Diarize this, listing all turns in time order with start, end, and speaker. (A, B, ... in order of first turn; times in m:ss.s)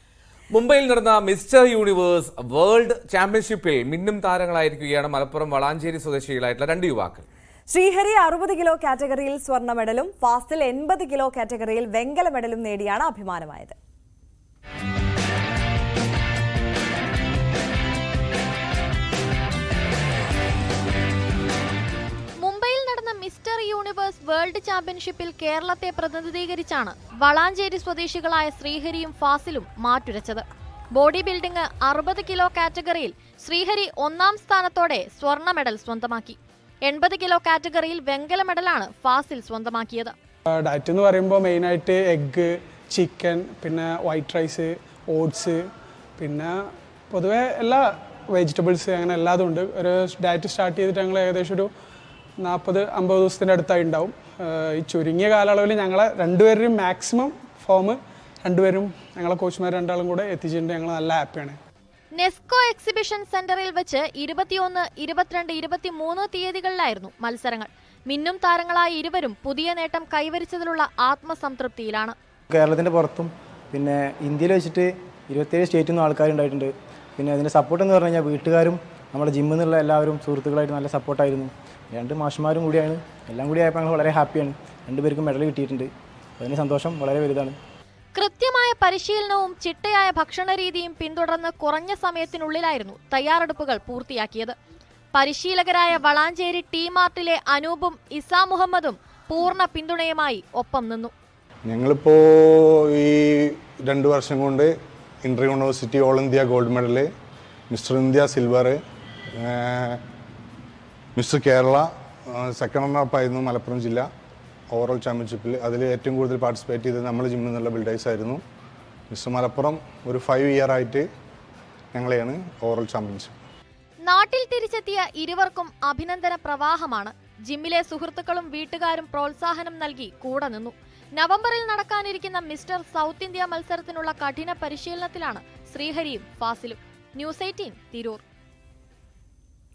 0:00.5-0:07.2 A
0:07.7-0:13.7 B
0:22.4-0:40.1 C
0:40.5-0:45.6 D
0:46.2-0:46.5 D
0:47.1-0:51.7 D
0:52.4-1:01.6 D
1:02.1-1:12.1 C
1:12.5-1:27.6 E
1:28.1-1:34.5 C
1:35.1-1:41.1 C
1:41.6-1:44.7 F
1:45.2-1:47.1 F
1:47.7-1:48.8 F
1:49.4-1:50.0 F
1:51.2-1:54.1 F
1:54.7-1:58.4 F
1:59.1-2:01.0 F
2:01.9-2:03.3 F
2:04.0-2:18.2 C